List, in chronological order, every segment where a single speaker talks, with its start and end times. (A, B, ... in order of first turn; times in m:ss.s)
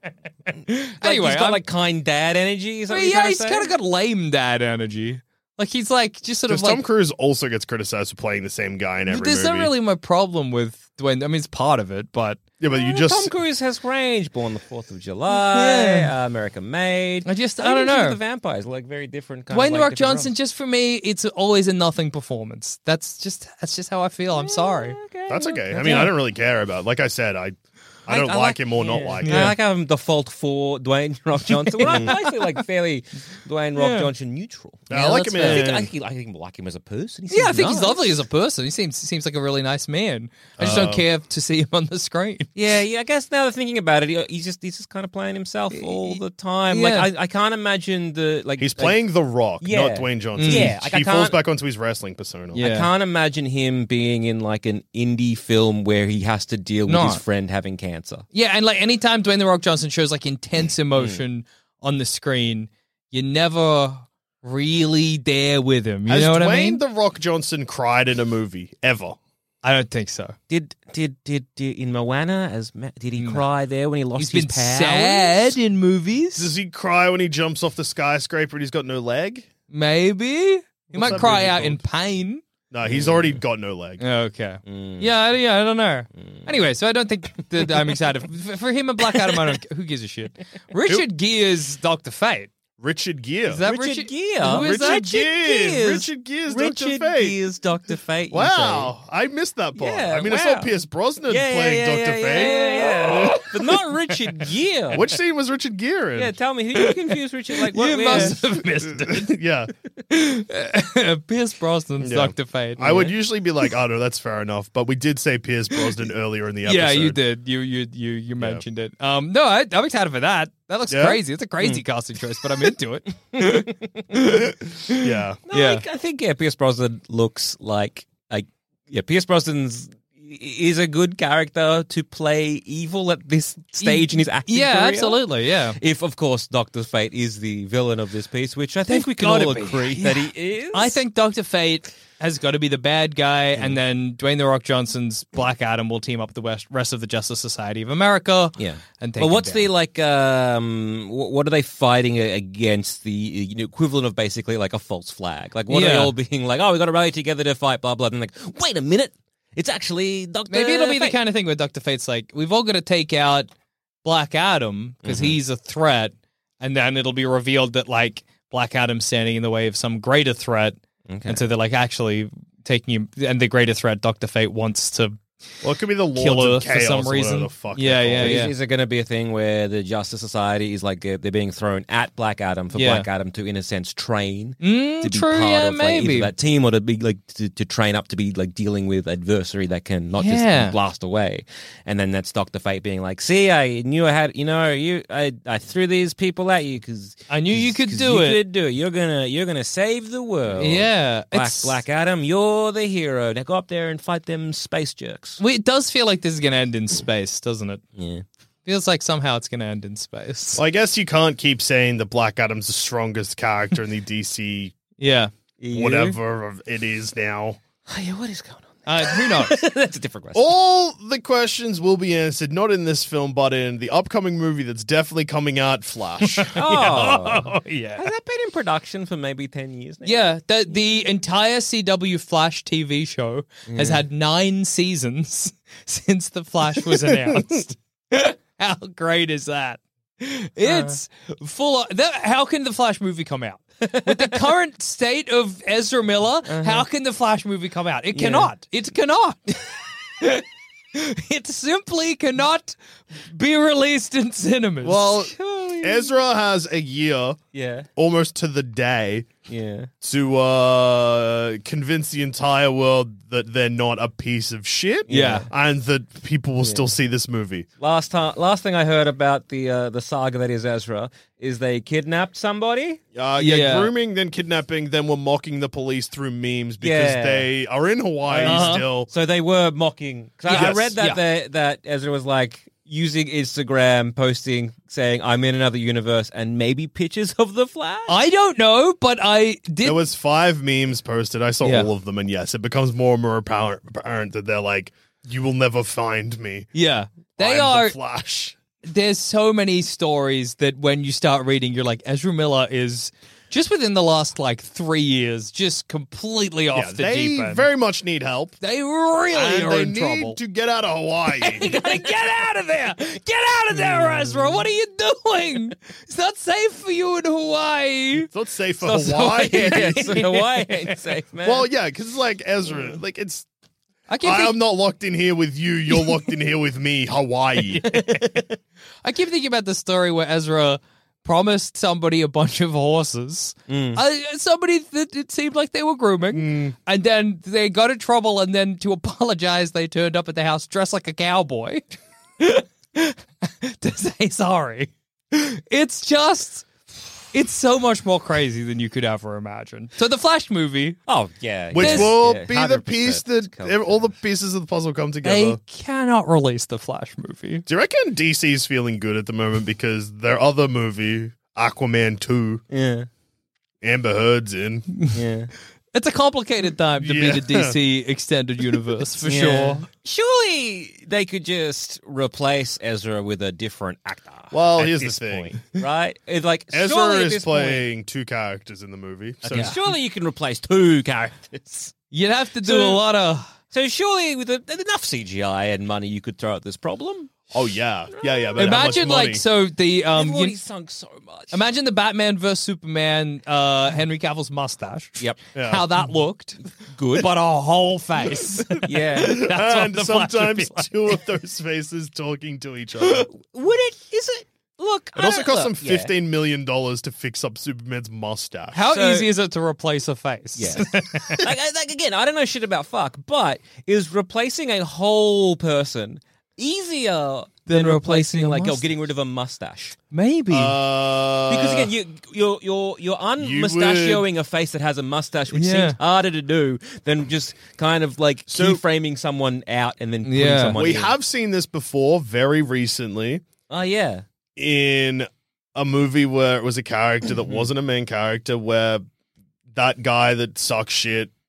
0:00.7-0:01.6 A
0:01.0-0:03.7 B
0:02.9-0:06.8 A
0:06.5-0:09.7 C
0:09.1-0:12.4 A
0:12.6-0:13.3 C
0:12.7-0:20.3 B
0:15.3-0:16.1 A
0:17.2-0:18.2 A
0:19.5-0:25.0 A
0:24.3-0:26.1 B
0:25.3-0:29.6 C
0:25.8-0:26.1 A
0:28.1-0:38.1 B
0:29.2-0:29.6 A
0:31.6-0:32.4 A
0:31.9-0:32.1 C
0:33.8-0:34.1 A
0:34.9-0:35.9 C
0:37.3-0:42.5 A
0:40.6-0:41.0 C
0:42.6-0:49.0 B
0:45.7-0:47.1 A
0:48.6-0:52.6 C
0:49.6-0:51.4 B
0:50.4-0:50.7 A
0:52.5-0:52.9 A
0:52.6-0:58.2 B
0:56.9-0:57.2 A
0:58.3-1:06.8 A
1:01.0-1:01.2 B
1:06.1-1:09.2 C
1:09.6-1:10.4 A
1:10.5-1:15.6 B
1:13.2-1:13.4 A
1:14.2-1:16.5 A
1:16.4-1:19.5 C
1:19.7-1:22.4 A
1:20.9-1:21.8 C
1:22.7-1:24.0 C
1:22.8-1:23.4 B
1:24.0-1:32.5 A
1:24.7-1:25.1 B
1:26.2-1:26.5 B
1:32.8-1:33.6 C
1:33.5-1:35.1 A
1:33.6-1:38.9 B
1:34.4-1:37.4 C
1:38.3-1:43.5 C
1:39.8-1:40.7 B
1:41.3-1:45.1 B
1:44.9-1:46.4 C
1:46.2-1:48.4 B
1:46.8-1:49.4 A
1:48.1-1:49.7 C
1:50.1-1:53.1 A
1:52.0-1:57.2 C
1:56.6-2:05.8 A
2:00.9-2:01.2 C
2:03.4-2:04.0 B
2:05.0-2:05.4 C
2:05.5-2:15.2 B
2:13.8-2:15.8 A
2:15.8-2:21.0 B
2:18.9-2:29.7 A
2:28.6-2:41.2 B
2:35.7-2:36.1 A
2:40.5-2:43.5 A
2:44.0-2:55.2 A
2:45.0-2:45.4 B
2:51.1-2:51.4 B
2:55.6-2:58.5 C
2:56.2-2:58.5 A
2:58.2-3:25.4 B
3:02.8-3:03.1 A
3:04.6-3:06.3 A
3:10.2-3:10.8 A
3:17.3-3:18.4 A
3:20.6-3:21.8 A
3:25.4-3:27.8 A
3:28.0-3:28.2 B
3:28.7-3:30.6 A
3:30.6-3:34.8 C
3:35.0-3:35.3 A
3:35.6-3:36.2 B
3:35.7-3:37.6 C
3:37.9-3:40.5 B
3:38.9-3:39.6 A
3:40.4-3:46.6 C
3:46.3-3:48.1 A
3:46.5-3:50.2 B
3:50.0-4:15.1 A
3:53.7-3:54.0 B
4:00.6-4:01.0 B
4:03.8-4:04.4 B
4:06.5-4:06.9 B
4:08.1-4:08.5 B
4:14.8-4:17.4 C
4:15.1-4:16.2 B
4:17.5-4:17.9 B
4:18.0-4:19.3 C
4:19.5-4:19.9 B
4:20.0-4:27.7 C
4:25.1-4:25.5 B
4:25.1-4:25.5 A
4:26.6-4:26.9 B
4:27.8-4:33.0 B
4:33.1-4:39.1 C
4:33.4-4:33.9 A
4:36.8-4:37.5 B
4:38.3-4:48.2 B
4:38.4-4:38.9 A
4:40.5-4:41.2 A
4:40.5-4:40.9 C
4:48.1-4:50.0 A
4:49.8-4:56.7 C
4:51.6-4:51.9 A
4:56.7-4:58.0 A
4:57.4-4:58.6 C
4:58.9-5:07.6 A
5:06.7-5:08.6 C
5:08.6-5:10.4 A
5:09.3-5:11.7 C
5:11.4-5:18.3 A
5:11.7-5:12.1 B
5:18.3-5:20.3 C
5:18.9-5:21.7 B
5:18.9-5:20.4 A
5:21.4-5:23.5 C
5:24.1-5:24.6 A
5:24.2-5:27.9 C
5:25.9-5:26.2 A
5:27.7-5:28.3 A
5:27.9-5:28.4 B
5:29.0-5:41.8 A
5:33.7-5:34.0 B
5:36.3-5:36.8 C
5:42.4-5:46.7 A
5:47.3-5:51.0 A
5:51.1-5:54.1 B
5:51.7-5:55.6 C
5:51.8-5:52.2 A
5:55.2-5:57.7 A
5:57.7-6:02.6 C
6:02.7-6:03.1 B
6:03.8-6:04.9 C
6:05.1-6:05.5 B
6:05.9-6:09.8 A
6:07.0-6:07.8 C
6:09.2-6:17.9 B
6:14.5-6:15.6 C
6:16.7-6:19.7 C
6:19.4-6:21.9 B
6:19.5-6:19.8 A
6:22.1-6:23.4 A
6:22.6-6:23.0 B
6:23.7-6:27.3 B
6:27.5-6:29.4 C
6:28.1-6:29.1 B
6:28.6-6:30.6 A
6:30.1-6:31.6 B
6:31.5-6:36.6 A
6:35.6-6:35.9 C
6:36.9-6:37.3 B
6:37.1-6:41.2 A
6:38.8-6:39.4 B
6:39.2-6:43.3 C
6:43.0-6:46.1 B
6:45.2-6:48.8 C
6:48.7-6:51.4 A
6:48.8-6:49.3 B
6:50.6-7:00.0 B
6:57.7-6:58.9 A
7:00.1-7:00.8 A
7:00.5-7:01.9 C
7:01.5-7:11.2 B
7:03.4-7:04.2 C
7:05.5-7:06.0 A
7:08.5-7:08.8 C
7:10.2-7:10.8 A
7:10.7-7:13.4 C
7:13.7-7:14.2 B
7:14.6-7:19.0 C
7:19.7-7:21.3 C